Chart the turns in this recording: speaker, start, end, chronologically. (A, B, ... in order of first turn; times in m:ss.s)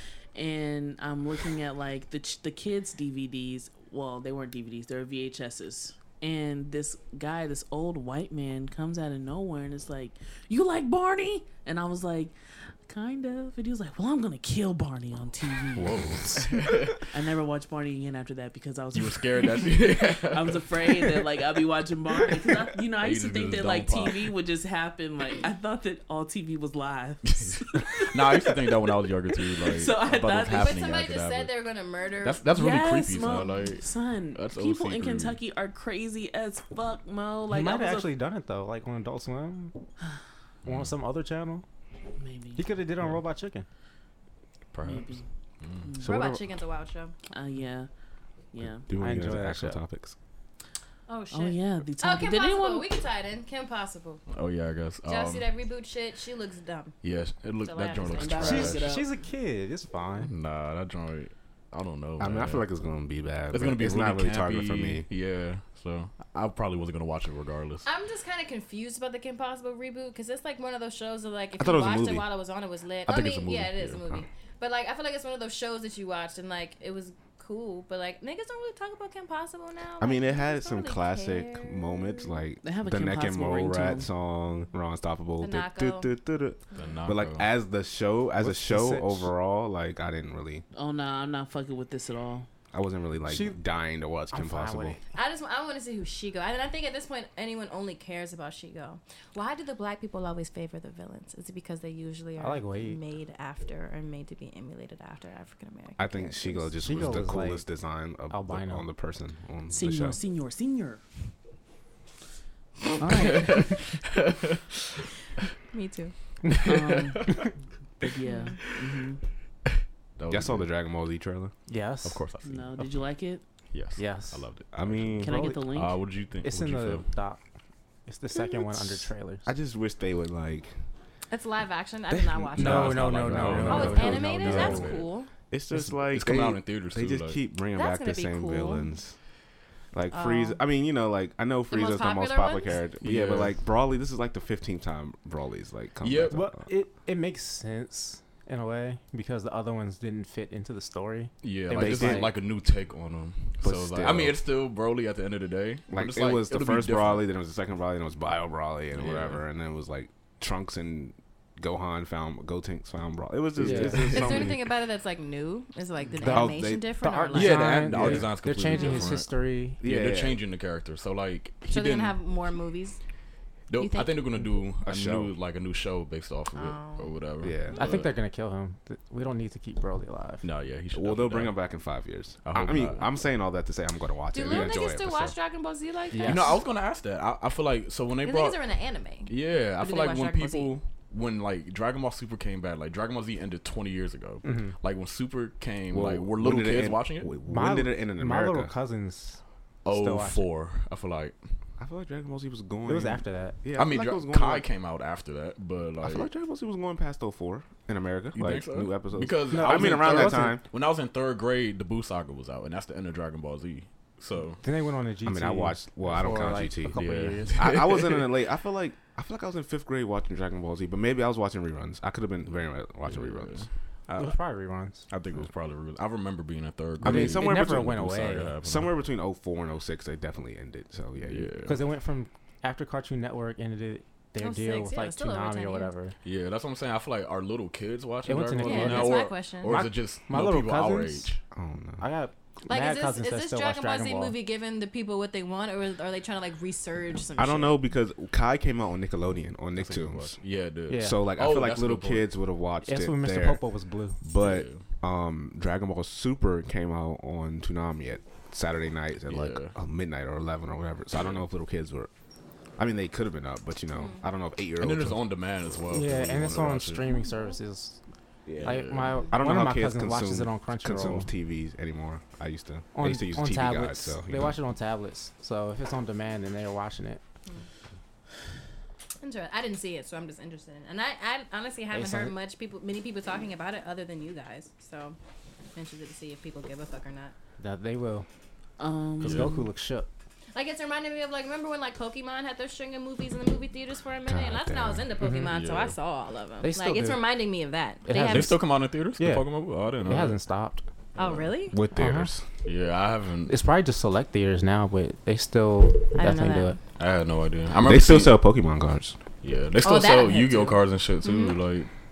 0:00.3-0:16.2 A
0:15.8-0:16.4 B
0:15.8-0:16.9 C
0:16.9-0:28.5 A
0:18.9-0:21.2 C
0:23.0-0:24.3 C
0:27.2-0:31.5 C
0:29.6-0:30.9 A
0:30.2-0:32.5 D
0:32.2-0:35.4 C
0:32.5-0:38.1 A
0:37.5-0:39.8 E
0:40.6-0:40.9 C
0:40.6-0:41.6 E
0:42.2-0:42.6 A
0:42.6-0:43.7 E
0:44.7-0:45.9 C
0:44.8-0:46.1 A
0:46.0-0:47.1 D
0:46.0-0:46.4 B
0:47.3-0:47.9 A
0:48.5-0:48.8 A
0:48.6-0:50.2 B
0:49.0-0:49.8 E
0:51.1-0:54.3 D
0:51.3-0:52.9 A
0:54.3-0:55.5 C
0:55.0-0:57.0 D
0:57.0-0:58.9 C
0:57.6-0:58.7 D
0:58.1-0:59.1 A
0:58.4-1:00.3 E
1:00.2-1:02.7 C
1:02.2-1:05.1 B
1:03.5-1:07.8 C
1:07.8-1:22.4 D
1:11.6-1:12.3 B
1:13.0-1:14.2 B
1:20.0-1:30.6 B
1:22.6-1:24.1 A
1:25.4-1:26.1 D
1:26.7-1:27.5 C
1:28.4-1:29.3 E
1:30.7-1:32.5 A
1:32.7-1:35.0 B
1:33.2-1:33.6 E
1:34.3-1:35.0 E
1:35.1-1:46.7 D
1:42.4-1:43.0 E
1:46.0-1:50.2 B
1:46.8-1:47.7 E
1:48.3-1:48.9 E
1:49.7-1:51.0 A
1:53.0-1:53.7 A
1:53.4-1:53.8 C
1:55.7-1:56.5 D
1:56.6-1:59.2 A
1:58.2-1:58.6 D
2:00.2-2:00.7 C
2:00.3-2:01.5 B
2:01.7-2:02.2 E
2:02.0-2:05.2 C
2:02.4-2:03.4 A
2:04.0-2:04.6 E
2:04.7-2:05.6 B
2:05.2-2:06.0 A
2:05.2-2:09.4 E
2:05.7-2:07.1 C
2:09.4-2:10.9 B
2:11.3-2:15.3 D
2:12.1-2:26.7 B
2:12.6-2:14.8 E
2:12.7-2:15.0 C
2:15.7-2:17.4 C
2:17.7-2:19.0 D
2:20.1-2:20.6 D
2:21.7-2:22.8 D
2:23.0-2:23.7 C
2:26.0-2:26.4 C
2:26.3-2:32.3 E
2:31.4-2:37.3 C
2:31.7-2:32.5 B
2:33.6-2:34.4 B
2:35.9-2:44.6 B
2:38.9-2:39.4 C
2:43.6-2:44.1 E
2:43.6-2:44.5 C
2:43.9-2:47.9 D
2:46.2-2:49.8 E
2:46.3-2:47.0 B
2:47.3-2:52.2 C
2:47.9-2:48.3 B
2:48.7-2:49.1 D
2:49.8-2:50.4 B
2:51.7-2:53.0 D
2:53.7-2:58.1 C
2:53.8-2:54.5 D
2:54.5-2:55.3 B
2:56.5-2:57.9 D
2:57.4-2:57.9 B
2:57.7-3:00.5 E
3:00.4-3:01.9 C
3:00.9-3:05.3 B
3:02.4-3:03.1 C
3:04.3-3:06.6 D
3:04.4-3:04.7 C
3:06.1-3:06.5 E
3:06.2-3:08.7 C
3:08.2-3:10.8 D
3:09.2-3:17.3 C
3:14.4-3:14.8 E
3:15.9-3:18.7 B
3:17.4-3:20.4 E
3:19.8-3:21.6 C
3:21.8-3:24.7 B
3:22.8-3:23.6 E
3:23.7-3:26.3 C
3:26.0-3:30.6 B
3:28.3-3:34.6 C
3:29.5-3:30.6 E
3:34.6-3:37.6 E
3:35.2-3:43.9 B
3:36.9-3:38.3 C
3:43.0-3:49.0 C
3:44.2-3:45.1 E
3:47.0-3:48.0 B
3:47.0-3:48.5 E
3:48.6-3:51.5 B
3:51.2-3:51.8 C
3:51.6-3:56.2 E
3:54.4-3:55.9 D
3:56.2-4:01.4 C
3:58.2-4:04.4 E
3:58.6-3:59.8 D
4:01.5-4:02.1 B
4:02.7-4:07.8 D
4:07.4-4:26.6 B
4:09.8-4:12.4 C
4:10.9-4:11.2 E
4:12.8-4:14.2 E
4:14.3-4:14.9 C
4:19.3-4:19.8 C
4:23.9-4:24.2 D
4:24.8-4:27.0 C
4:25.9-4:31.3 E
4:27.1-4:27.5 D
4:28.4-4:34.5 B
4:28.6-4:29.2 C
4:32.9-4:37.2 E
4:39.2-4:47.3 D
4:41.9-4:42.3 E
4:47.6-4:48.3 E
4:48.8-4:49.7 A
4:49.2-4:50.1 E
4:49.2-4:49.5 C
4:50.5-4:58.6 D
4:54.2-4:55.1 B
4:55.2-4:55.5 E
4:55.5-4:56.0 C
4:56.6-4:57.2 E
4:58.0-5:00.8 E
4:58.3-5:00.4 C
5:01.2-5:01.8 D
5:01.2-5:01.5 C
5:01.7-5:02.5 B
5:01.9-5:02.3 E
5:02.6-5:03.6 C
5:03.4-5:06.8 E
5:06.1-5:06.8 D
5:06.9-5:08.7 C
5:07.8-5:09.2 B
5:09.4-5:11.9 C
5:09.8-5:11.6 D